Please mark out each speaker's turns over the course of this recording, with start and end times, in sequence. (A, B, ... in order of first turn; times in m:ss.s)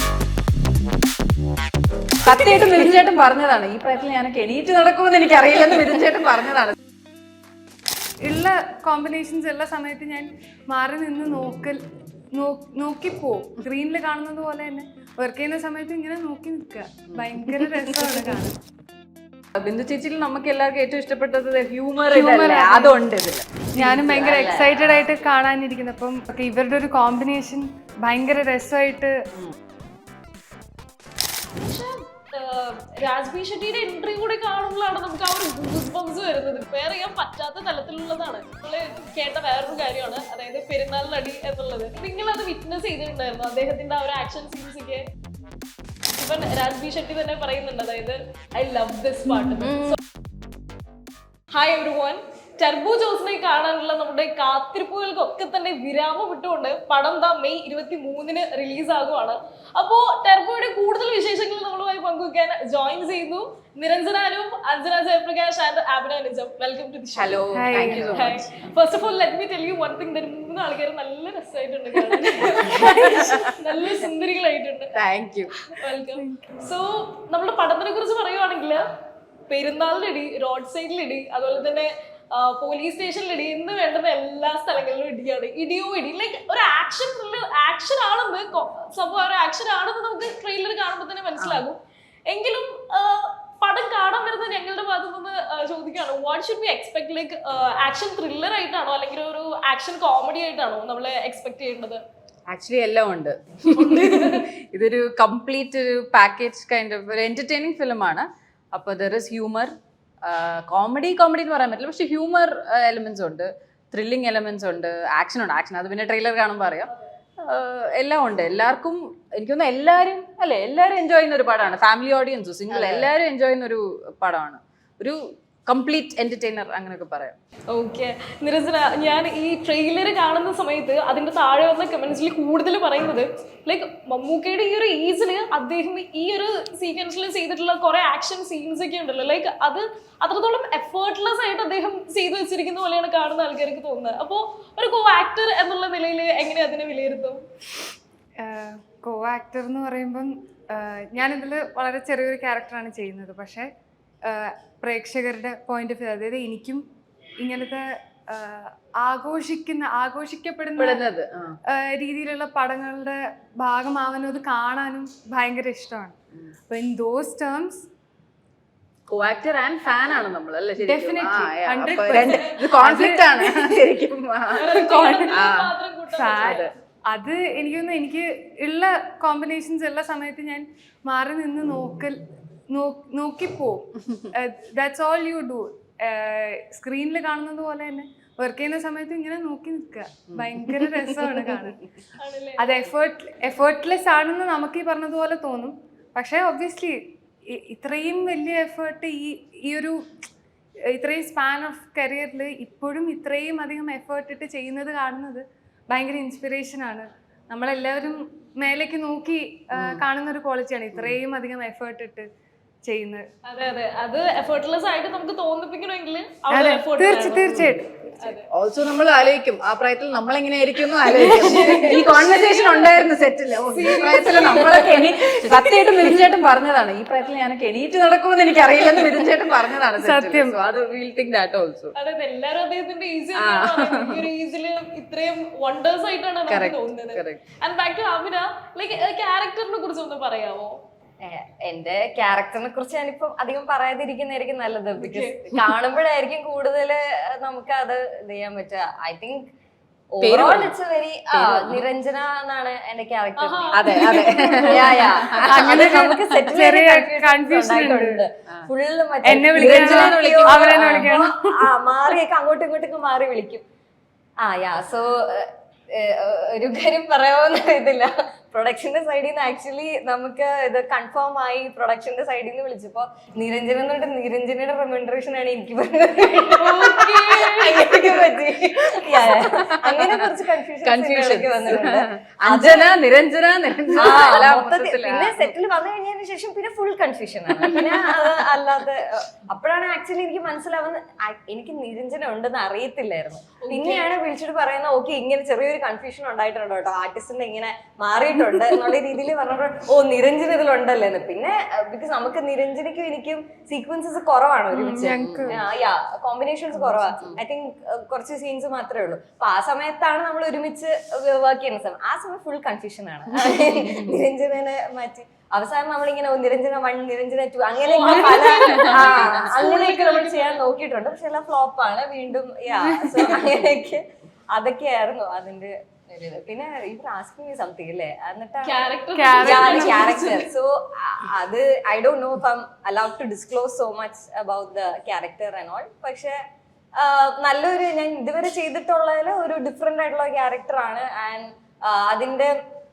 0:02.2-0:06.8 A
0:08.2-0:11.8 B
0:12.3-0:18.6 B
0:17.1-0:18.4 A
0:19.6-0:24.4 A
0:22.1-0:23.0 B
0:23.7-0:29.2 B
0:24.1-0:25.1 C
0:31.5-0:45.1 D
0:46.2-0:50.0 D
0:49.6-0:50.0 A
0:51.5-1:15.0 D
1:07.2-1:08.6 A
1:07.5-1:08.3 B
1:12.2-1:13.7 A
1:14.9-1:15.5 A
1:15.5-1:18.9 D
1:16.1-1:16.6 B
1:19.5-1:42.0 D
1:42.5-2:07.3 A
1:43.7-1:44.4 D
2:02.7-2:03.1 C
2:07.7-2:27.4 D
2:28.4-2:33.7 B
2:34.2-2:36.8 B
2:37.4-2:41.0 B
2:40.8-2:41.6 A
2:41.7-2:46.2 B
2:46.7-2:47.9 B
2:49.1-2:55.7 A
2:50.8-2:53.8 B
2:54.5-2:56.6 D
2:56.1-3:11.8 B
2:56.3-2:56.7 A
3:10.3-3:11.7 A
3:12.2-3:12.8 D
3:12.6-3:20.2 B
3:20.9-3:32.3 B
3:29.7-3:30.0 A
3:30.9-3:31.2 A
3:32.8-3:33.3 B
3:33.4-3:37.5 D
3:36.5-3:38.3 B
3:37.5-3:37.8 A
3:38.2-3:38.5 D
3:38.5-3:51.9 A
3:41.1-3:43.0 D
3:41.6-3:42.0 B
3:43.7-3:45.7 D
3:50.0-3:50.7 B
3:51.9-4:00.8 D
3:53.4-3:54.3 A
3:56.5-3:57.4 A
4:01.2-4:09.5 C
4:05.0-4:05.6 D
4:10.1-4:23.6 C
4:10.2-4:10.7 A
4:11.3-4:11.8 A
4:13.4-4:15.4 D
4:13.7-4:16.6 A
4:15.5-4:18.2 B
4:19.2-4:21.7 B
4:19.3-4:21.3 A
4:24.4-4:42.9 C
4:36.6-4:37.9 D
4:38.1-4:40.3 A
4:40.8-4:45.4 A
4:43.9-5:28.8 C
4:47.6-4:48.3 A
4:53.6-4:54.1 D
5:04.7-5:05.6 B
5:05.0-5:05.5 A
5:13.3-5:14.2 A
5:17.8-5:20.6 D
5:18.1-5:19.4 A
5:23.1-5:23.5 A
5:28.6-5:30.5 D
5:29.1-5:30.1 B
5:29.4-5:36.4 C
5:37.0-5:42.5 C